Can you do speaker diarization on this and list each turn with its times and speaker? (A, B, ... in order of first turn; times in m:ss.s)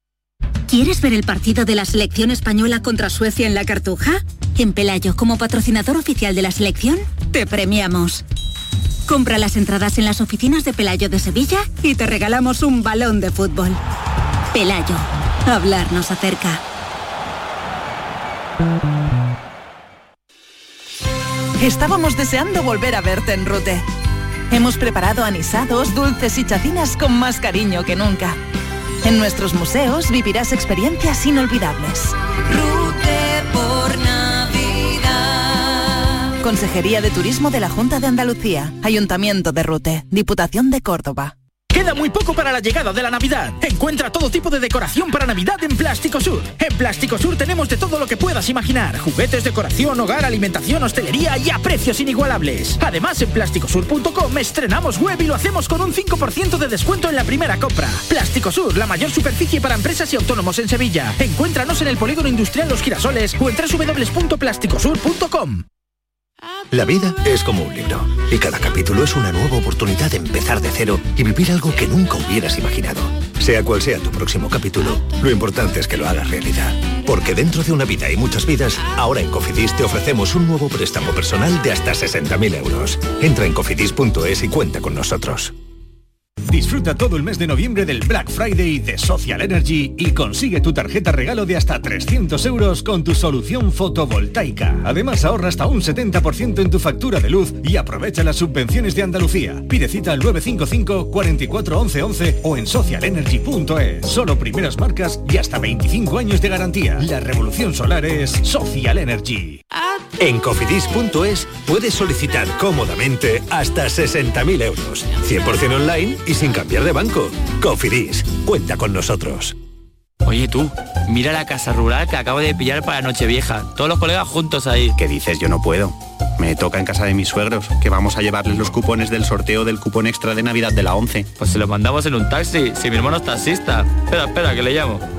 0:00.7-0:08.2 A
0:09.1-0:13.8 A
0:14.5-0:16.6 A
0:21.6-0:23.9 B
0:24.5-0:28.4 B
0:29.0-0:32.2 B
0:32.8-0:33.5 A
0:36.4-0:41.3 B
0:41.7-1:05.6 C
1:06.7-1:25.5 D
1:26.5-1:49.6 E
1:50.2-1:59.5 D
2:00.2-2:05.0 F
2:05.0-2:11.3 G
2:11.4-2:15.0 F